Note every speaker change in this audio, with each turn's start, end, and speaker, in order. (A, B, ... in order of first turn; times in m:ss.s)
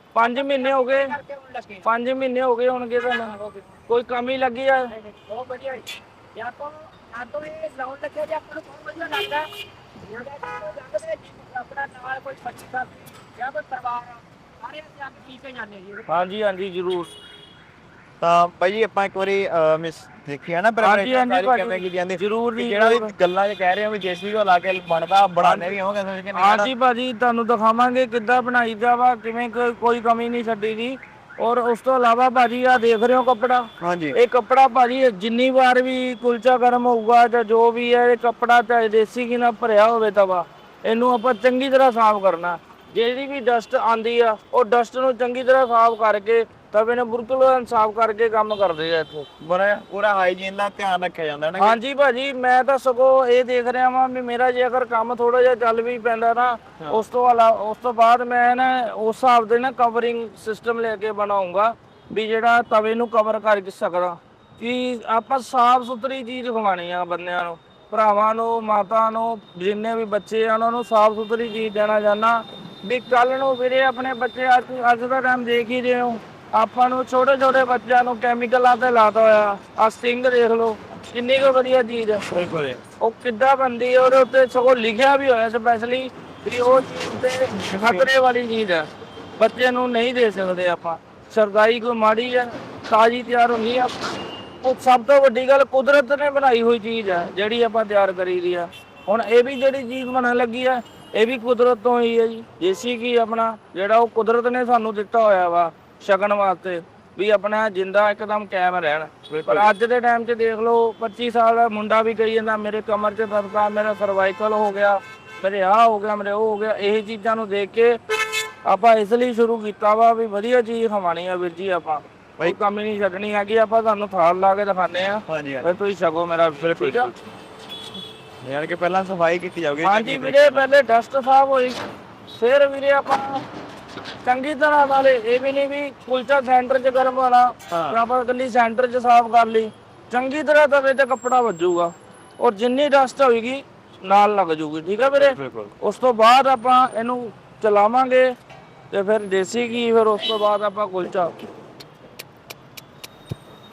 0:00.1-0:01.2 A
0:00.5-0:01.8 B
0:01.8-0:04.9 A
0:05.1-0:16.0 B
0:16.0-0:17.1 A
0:18.2-0:26.7 C
0:20.8-0:23.1 A
0:25.4-0:25.7 A
0:26.3-0:49.3 A
0:33.8-0:34.2 C
0:49.4-0:51.8 C
0:51.6-1:22.2 A
1:22.3-1:22.8 C
1:23.0-1:28.9 A
1:27.7-1:28.1 C
1:29.4-1:34.1 A
1:34.6-2:07.1 A
1:49.3-1:49.7 C
2:05.3-2:05.7 C
2:06.6-2:07.1 C
2:08.4-2:10.6 C
2:09.8-2:13.4 A
2:14.2-2:28.3 A
2:17.7-2:18.0 C
2:25.0-2:25.7 C
2:28.9-2:31.3 A